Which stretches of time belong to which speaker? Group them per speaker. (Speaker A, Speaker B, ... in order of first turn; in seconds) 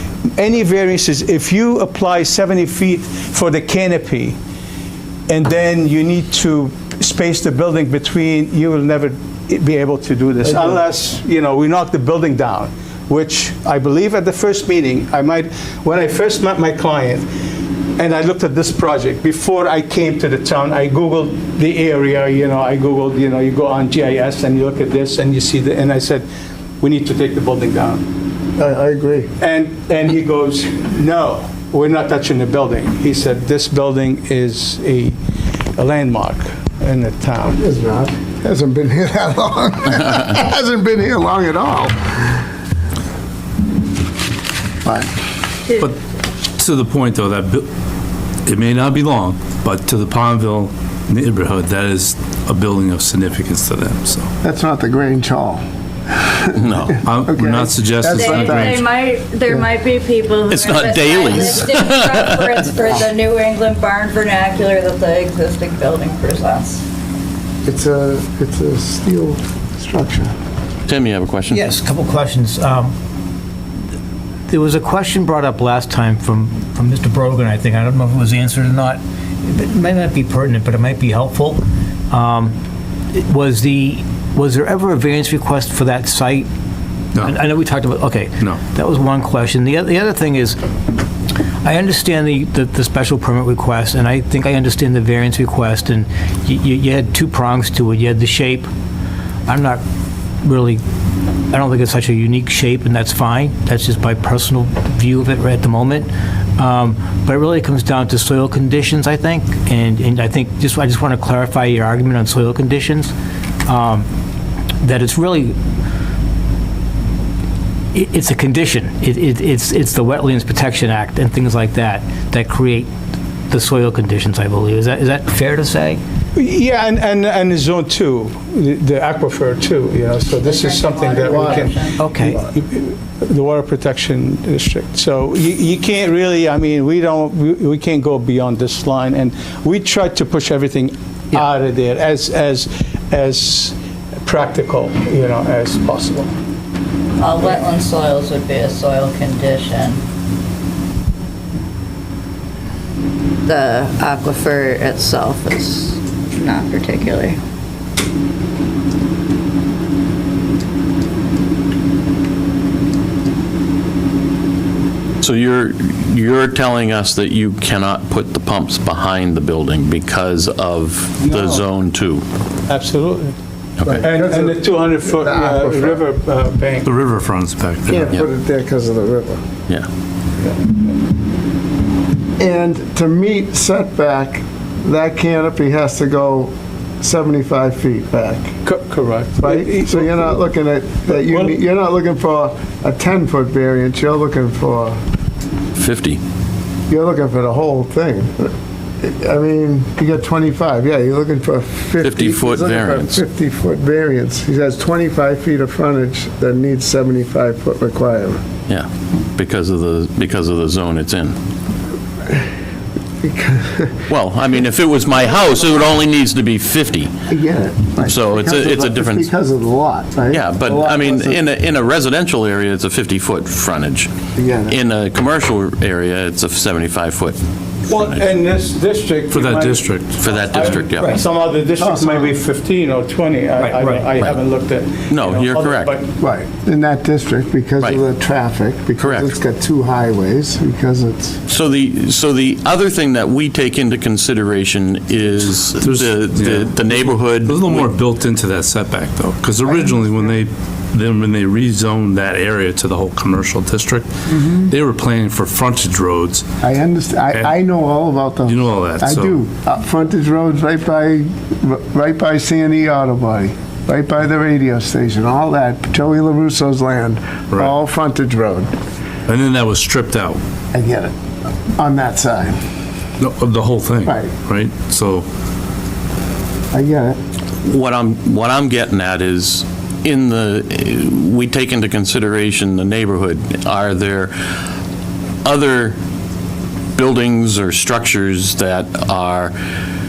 Speaker A: 0.3-4.4, 5.3-17.3, 18.0-26.2, 26.8-28.1, 29.4-35.2, 35.8-37.6, 126.3-146.3, 171.2-171.6, 172.7-173.3, 174.0-176.9, 188.6-190.4, 191.1-191.6, 227.9-236.1
Speaker B: 10.5-10.8, 28.6-29.3, 37.5-42.4, 44.8-45.1, 54.4-55.6, 57.2-58.7, 67.6-70.3, 130.5-131.7, 132.2-132.5, 173.8-176.0, 177.8-179.4, 182.4-188.5, 189.4-195.0, 196.9-208.4, 213.2-214.0, 217.3-221.4, 224.3-224.8, 231.8-232.3, 236.2-241.4, 249.7-250.1, 256.6-268.7, 270.7-271.1, 271.8-272.6, 274.0-274.3, 276.7-277.2
Speaker C: 46.6-47.7, 48.5-54.3, 57.0-58.8, 87.1-87.5, 176.8-178.2, 229.3-230.2, 245.7-256.5, 258.5-259.4, 269.3-270.4, 273.2-275.2
Speaker D: 56.5-57.0, 60.5-62.5, 70.9-71.7, 165.2-172.2, 173.8-174.0, 195.7-196.2, 202.0-203.2, 208.7-211.3, 214.1-217.1, 218.0-219.3, 220.3-224.1, 224.7-228.3, 230.2-231.2, 234.1-234.4, 235.1-235.9, 239.0-239.3, 241.5-247.9, 277.6-284.6, 285.4-286.0, 286.9-289.5
Speaker E: 58.2-66.8, 130.5-132.0, 147.2-150.0, 153.4-157.4
Speaker F: 71.5-72.9, 74.5-82.5, 83.1-86.5, 87.2-90.6, 91.6-98.7, 99.5-99.8, 100.4-100.8, 101.5-113.1, 113.7-114.1, 114.8-115.5, 117.9-122.9, 123.5-126.0, 132.0-132.4, 231.0-231.2, 233.6-234.1